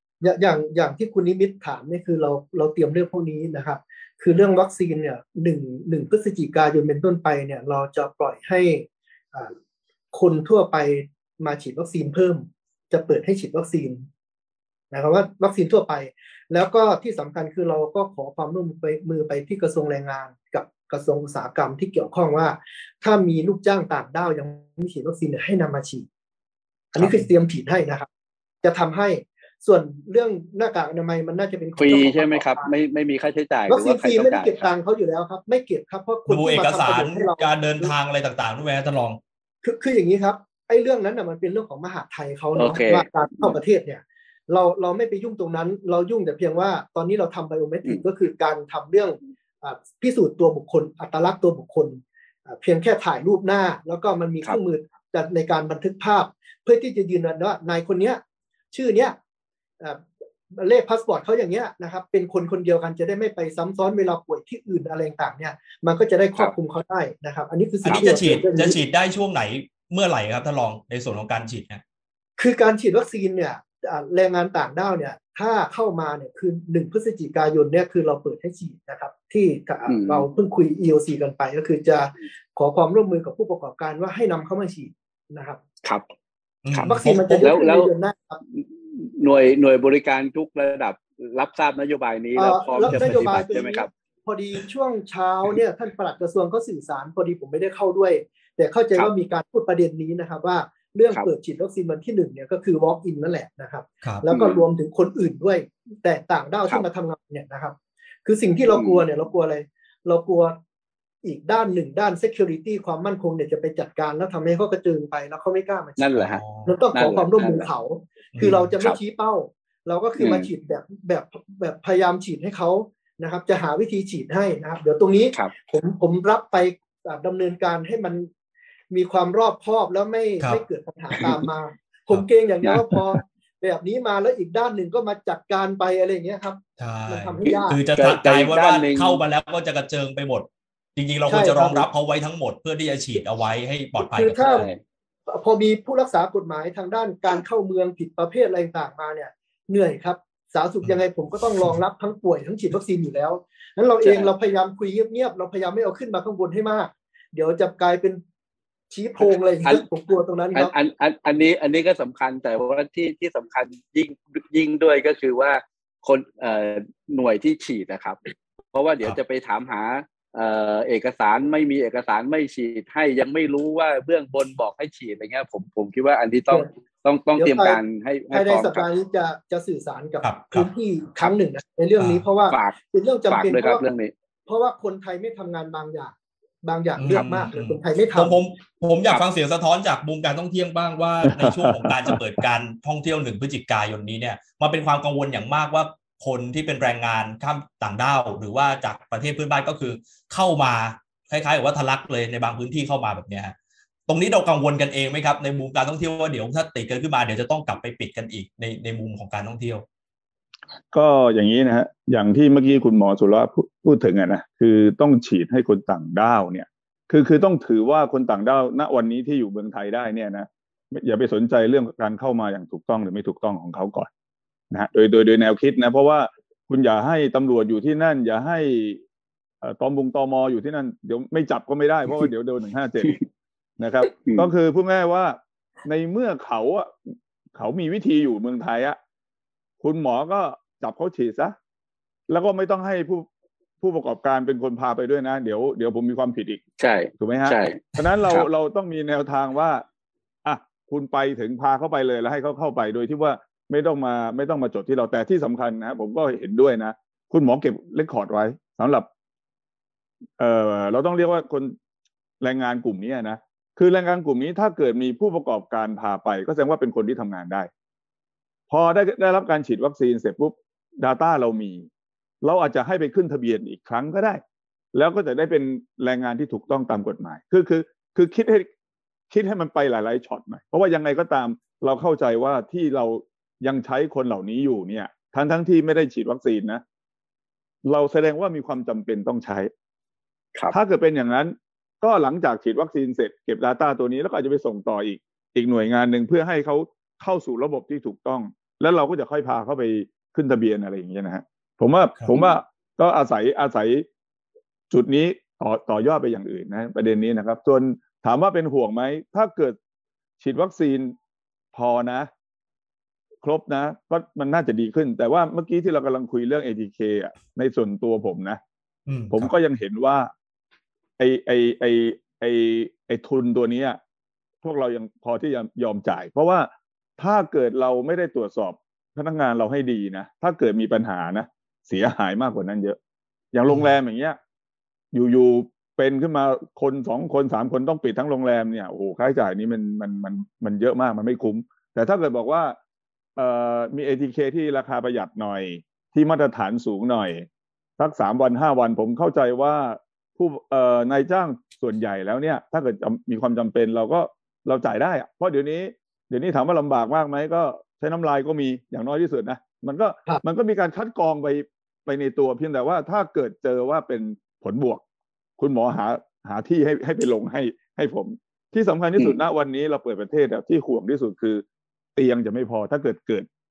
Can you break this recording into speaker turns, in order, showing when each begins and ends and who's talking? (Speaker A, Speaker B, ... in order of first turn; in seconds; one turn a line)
Speaker A: 0.2-9.5
Speaker A: 10.1-14.1
Speaker A: 14.9-26.1
Speaker A: 26.9-28.1
Speaker B: 27.0-27.3
Speaker A: 28.6-32.7
Speaker C: 31.8-34.7
Speaker A: 33.7-37.9
Speaker B: 36.3-39.2
Speaker A: 39.6-58.2
Speaker C: 42.6-43.6
Speaker A: 58.7-59.2
Speaker A: 59.8-68.8
Speaker B: 67.8-71.8
Speaker C: 67.9-68.1
Speaker A: 72.4-85.6
Speaker C: 79.9-80.3
Speaker B: 86.7-87.6
Speaker C: 86.7-87.9
Speaker A: 86.9-88.4
Speaker C: 88.5-93.9
Speaker A: 92.4-110.6
Speaker B: 92.9-93.4
Speaker C: 104.3-104.6
Speaker C: 108.7-109.0
Speaker A: 111.2-116.1
Speaker C: 116.0-116.4
Speaker B: 116.2-116.7
Speaker A: 116.7-128.3
Speaker C: 116.9-117.7
Speaker B: 118.3-118.7
Speaker C: 120.2-120.5
Speaker A: 128.9-137.8
Speaker C: 131.1-131.4
Speaker B: 136.8-144.7
Speaker C: 137.4-139.2
Speaker A: 141.3-141.9
Speaker A: 144.0-144.7
Speaker C: 144.4-144.8
Speaker A: 145.3-158.2
Speaker C: 154.0-154.3
Speaker A: 158.9-160.7
Speaker C: 160.6-178.9
Speaker A: 177.4-177.8
Speaker A: 178.3-183.8
Speaker B: 180.2-180.7
Speaker B: 182.0-182.2
Speaker C: 182.5-184.1
Speaker A: 184.5-188.4
Speaker B: 187.0-203.5
Speaker D: 191.2-192.2
Speaker B: 204.1-209.8
Speaker D: 210.9-224.1
Speaker D: 224.7-229.0
Speaker D: 229.6-233.2
Speaker D: 233.8-239.0
Speaker C: 234.2-234.5
Speaker D: 239.8-241.6
Speaker D: 242.3-243.3
Speaker D: 243.8-246.6
Speaker C: 246.8-248.5
Speaker D: 247.2-249.8
Speaker D: 250.4-259.1
Speaker D: 260.4-261.8
Speaker D: 262.4-267.7
Speaker D: 268.7-271.9
Speaker D: 272.4-274.4
Speaker D: 274.9-278.7
Speaker D: 279.3-286.8
Speaker D: 287.9-289.7
Speaker D: 290.7-304.1
Speaker D: 304.9-309.8
Speaker D: 310.4-311.1
Speaker D: 311.7-312.3
Speaker D: 313.4-318.6
Speaker B: 319.1-319.5
Speaker D: 319.3-320.3
Speaker D: 321.2-324.0
Speaker D: 324.6-333.0
Speaker D: 333.5-334.4
Speaker D: 335.1-342.8
Speaker D: 343.4-347.5
Speaker D: 348.0-365.0
Speaker D: 365.6-371.6
Speaker D: 372.2-373.5